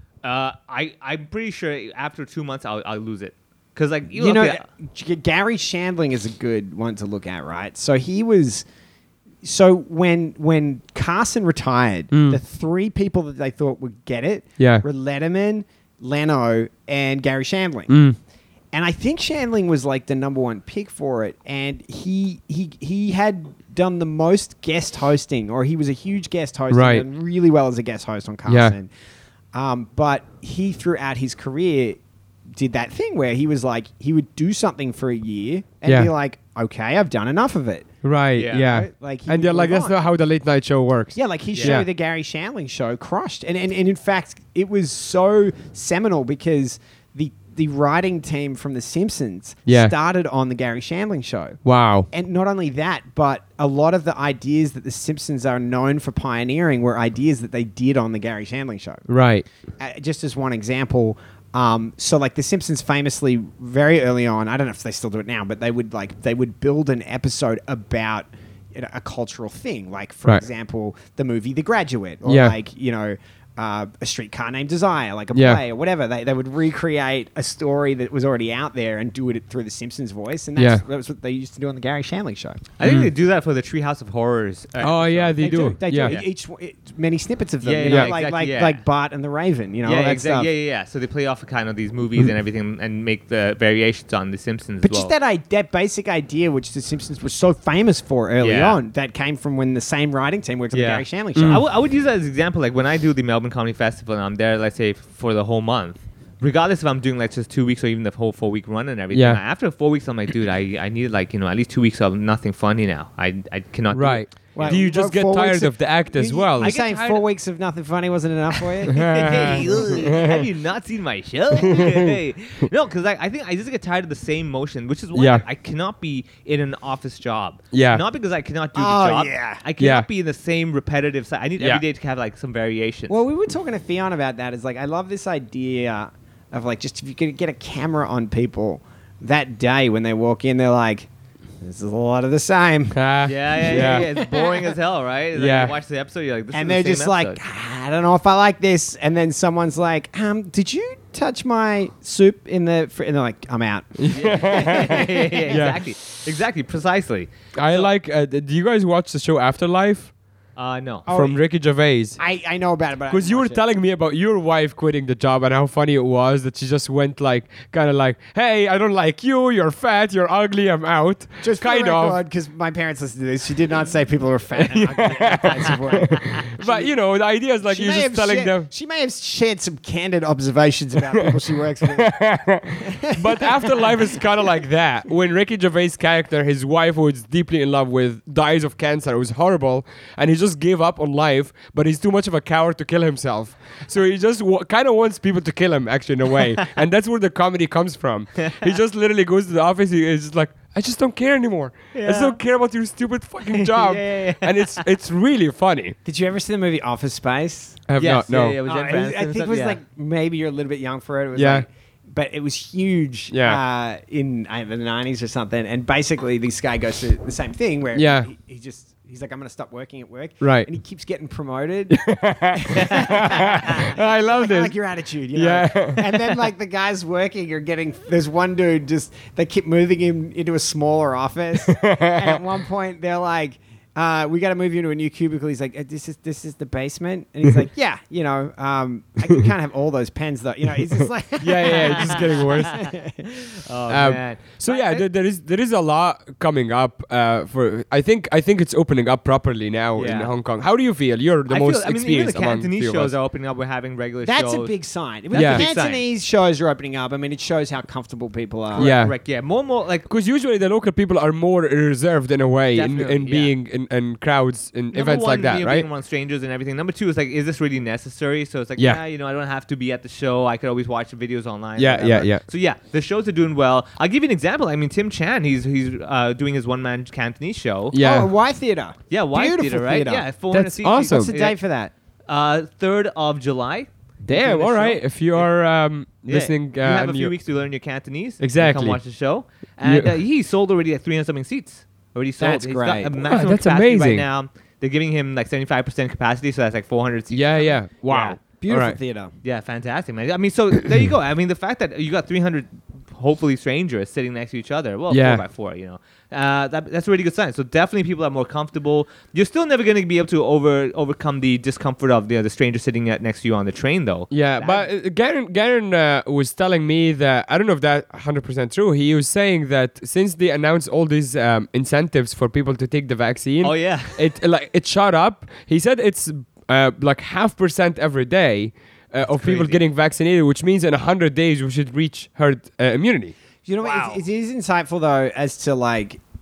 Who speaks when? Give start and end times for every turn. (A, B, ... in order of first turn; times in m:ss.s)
0:00.2-0:04.6 A
0:04.2-0:08.6 B
0:09.4-0:18.0 B
0:12.1-0:12.4 C
0:14.6-0:14.8 C
0:17.9-0:18.2 C
0:18.7-0:28.9 B
0:26.7-0:27.0 C
0:28.5-0:28.7 C
0:29.5-0:32.0 B
0:32.6-0:37.9 B
0:35.8-0:36.1 C
0:38.0-0:41.9 C
0:38.4-0:38.7 A
0:38.6-0:40.0 B
0:41.2-0:59.1 B
0:41.6-0:41.8 A
0:49.7-0:49.9 C
0:51.6-0:52.1 C
0:59.1-0:59.4 C
0:59.8-1:22.6 B
1:12.2-1:12.5 C
1:15.3-1:15.6 C
1:20.6-1:20.8 C
1:22.8-1:26.3 A
1:22.8-1:23.1 C
1:24.8-1:26.2 C
1:25.4-1:30.5 B
1:27.6-1:28.8 A
1:27.8-1:28.1 C
1:29.8-1:35.1 A
1:34.8-1:41.6 B
1:38.4-1:38.8 A
1:40.7-1:54.8 A
1:41.4-1:41.6 C
1:49.1-1:49.4 C
1:53.9-1:56.8 C
1:54.5-2:00.2 B
1:56.6-1:57.3 A
1:58.6-2:13.2 A
1:58.9-2:00.5 C
2:01.6-2:02.2 C
2:05.1-2:05.4 C
2:07.7-2:08.0 C
2:08.8-2:09.6 B
2:09.8-2:10.1 C
2:13.1-2:21.1 B
2:21.6-2:24.6 B
2:22.9-2:24.1 C
2:23.2-2:27.4 A
2:25.4-2:25.8 C
2:26.5-2:35.7 B
2:34.0-2:35.8 C
2:34.1-2:37.9 A
2:37.6-2:40.1 C
2:40.6-2:41.1 A
2:41.1-2:41.4 B
2:41.1-2:42.2 C
2:42.2-2:43.6 B
2:43.1-2:52.2 C
2:51.4-2:56.9 B
2:54.6-2:58.7 C
2:55.3-2:56.4 A
2:57.6-3:02.2 B
3:01.9-3:26.0 C
3:02.8-3:04.2 B
3:18.4-3:18.7 A
3:21.9-3:22.4 A
3:23.4-3:24.8 A
3:26.0-3:27.9 B
3:27.9-3:28.6 C
3:28.0-3:29.8 A
3:28.6-4:03.2 B
3:31.4-3:31.7 C
3:33.3-3:33.6 C
3:37.9-3:38.3 C
3:40.4-3:40.7 C
3:41.9-3:44.8 C
3:45.4-3:46.3 C
3:51.7-3:52.4 C
4:01.4-4:02.8 C
4:01.5-4:02.9 A
4:03.5-4:05.1 A
4:03.9-4:13.1 C
4:10.0-4:10.3 A
4:11.5-4:14.8 A
4:14.2-4:19.0 B
4:15.3-4:16.0 A
4:15.3-4:15.7 C
4:18.7-4:20.1 A
4:18.8-4:19.2 C
4:20.1-4:25.9 C
4:22.7-4:23.5 A
4:24.9-4:38.0 A
4:31.8-4:32.4 C
4:37.9-4:38.3 C
4:38.0-4:40.3 B
4:39.1-4:41.6 A
4:40.5-4:41.3 C
4:40.9-4:41.9 B
4:42.3-4:45.5 A
4:44.3-4:47.3 C
4:46.3-4:58.4 A
4:48.4-4:49.0 C
4:49.8-4:50.1 C
4:52.4-4:53.2 B
4:53.2-4:54.3 C
4:57.3-4:59.0 C
4:58.6-4:59.3 B
4:59.4-5:14.9 A
5:05.1-5:05.4 C
5:14.3-5:33.3 C
5:23.6-5:24.3 A
5:29.3-5:29.8 A
5:33.6-5:36.2 B
5:33.8-5:34.2 A